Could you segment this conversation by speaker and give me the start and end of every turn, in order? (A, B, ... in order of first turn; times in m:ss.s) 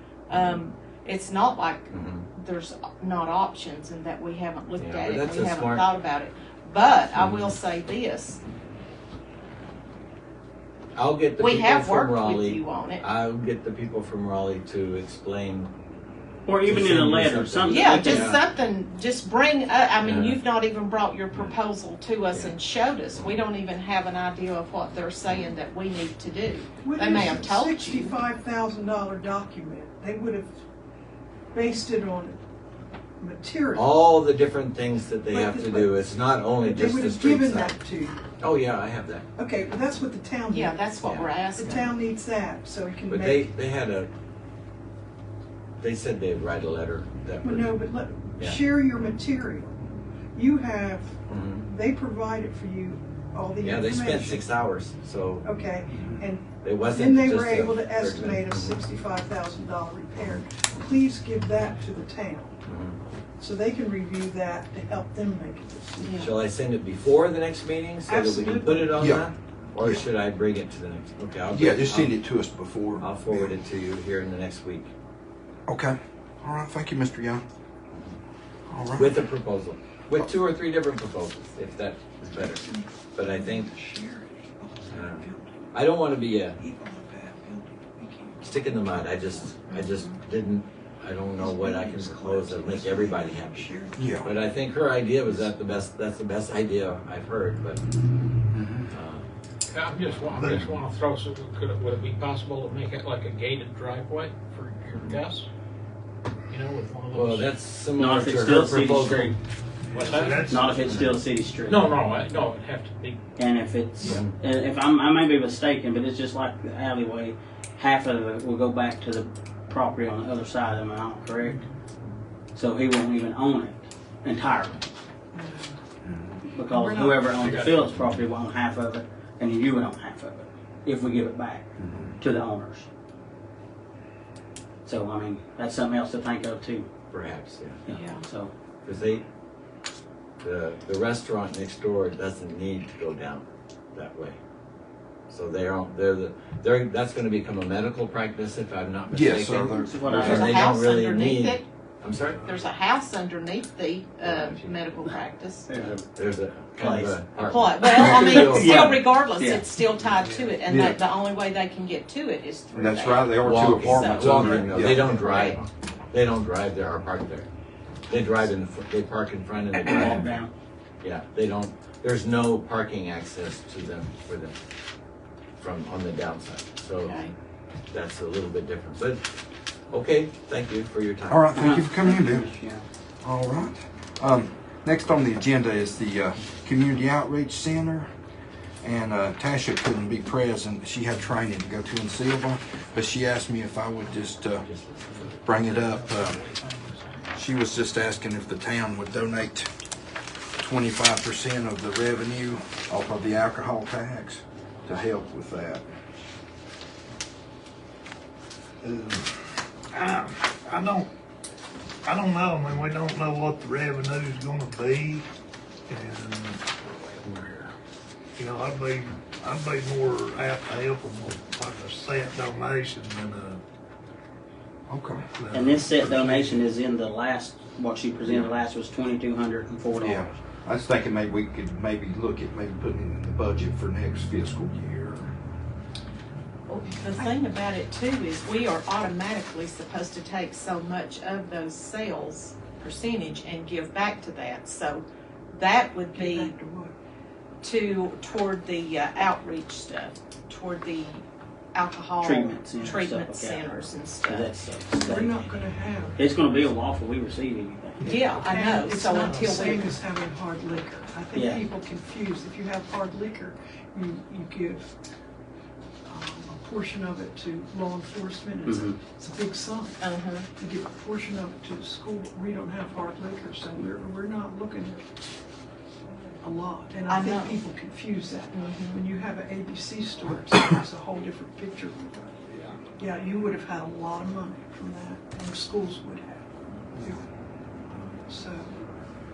0:00.3-0:08.4 A
0:00.3-0:00.6 B
0:01.9-0:02.3 B
0:04.8-0:05.8 B
0:07.1-0:07.5 B
0:10.9-0:15.7 B
0:11.4-0:13.0 A
0:16.4-0:18.3 C
0:16.6-0:18.4 B
0:17.7-0:28.2 A
0:20.0-0:20.4 B
0:23.1-0:23.4 B
0:26.8-0:30.5 D
0:31.5-0:32.4 D
0:33.2-0:33.9 D
0:33.7-0:37.8 B
0:35.3-0:38.2 D
0:38.4-0:39.2 B
0:39.4-0:40.9 D
0:40.5-0:41.9 A
0:41.0-0:41.3 B
0:41.5-0:43.5 D
0:43.1-0:44.1 B
0:45.8-0:47.8 B
0:47.4-0:49.8 D
0:50.3-0:54.5 D
0:51.3-0:51.7 B
0:53.6-0:55.5 B
0:55.4-1:02.6 D
0:56.6-0:58.8 B
1:02.6-1:03.0 B
1:03.4-1:06.3 D
1:06.0-1:06.3 A
1:06.2-1:12.2 B
1:08.0-1:09.0 D
1:09.0-1:09.3 E
1:09.8-1:10.0 E
1:11.5-1:13.6 E
1:13.0-1:14.9 B
1:15.7-1:17.4 E
1:18.7-1:19.2 E
1:19.0-1:23.7 B
1:22.4-1:25.8 D
1:24.9-1:26.6 B
1:26.6-1:28.7 D
1:28.4-1:37.8 B
1:31.4-1:34.4 D
1:34.0-1:34.3 E
1:38.5-1:38.9 E
1:38.9-1:39.2 B
1:39.7-1:45.5 F
1:40.3-1:40.7 G
1:46.5-1:47.5 F
1:47.1-1:49.4 B
1:48.0-1:49.4 C
1:49.9-1:51.2 G
1:49.9-1:50.8 F
1:50.5-1:51.8 C
1:51.6-1:53.2 F
1:53.4-2:01.6 C
1:54.0-1:54.3 B
2:02.5-2:04.8 C
2:05.4-2:05.6 A
2:06.0-2:06.4 E
2:06.5-2:12.9 C
2:06.7-2:07.3 D
2:07.3-2:07.9 F
2:11.8-2:12.2 E
2:14.8-2:16.9 C
2:17.1-2:17.8 B
2:17.8-2:18.5 C
2:17.9-2:18.2 A
2:18.8-2:19.2 B
2:20.4-2:24.4 B
2:25.3-2:32.5 B
2:29.1-2:30.5 E
2:29.7-2:30.6 C
2:30.2-2:31.6 A
2:32.1-2:32.7 G
2:32.4-2:35.9 A
2:34.2-2:35.0 B
2:35.7-2:36.0 C
2:36.1-2:39.2 B
2:36.8-2:37.2 C
2:37.4-2:45.6 A
2:37.8-2:39.7 C
2:40.0-2:40.6 G
2:40.7-2:41.0 E
2:42.7-2:45.2 E
2:43.4-2:47.5 B
2:48.1-2:50.4 B
2:49.8-2:50.5 C
2:49.9-2:50.2 A
2:51.0-2:54.5 B
2:55.6-2:57.2 B
2:57.0-2:57.3 A
2:57.9-2:59.2 B
2:59.9-3:01.5 B
3:01.3-3:02.5 E
3:01.5-3:02.8 C
3:03.2-3:08.1 E
3:08.8-3:14.6 E
3:14.5-3:15.5 B
3:15.4-3:17.3 F
3:15.4-3:16.4 E
3:17.3-3:19.7 E
3:20.6-3:25.8 E
3:28.8-3:31.1 G
3:32.0-3:35.2 G
3:35.9-3:37.7 G
3:38.4-3:43.6 G
3:44.9-3:45.2 E
3:45.3-3:46.7 G
3:45.5-3:50.4 C
3:50.0-3:55.3 E
3:56.7-4:06.5 A
4:06.1-4:06.9 D
4:07.6-4:14.5 A
4:12.2-4:15.4 C
4:14.9-4:16.2 D
4:16.2-4:18.2 C
4:18.0-4:24.9 D
4:18.0-4:19.9 A
4:19.3-4:19.5 G
4:21.3-4:21.6 C
4:26.0-4:30.0 D
4:28.6-4:29.0 C
4:30.0-4:30.5 A
4:30.6-4:35.1 D
4:36.4-4:47.2 D
4:37.1-4:37.6 A
4:38.5-4:39.0 A
4:47.9-4:48.8 D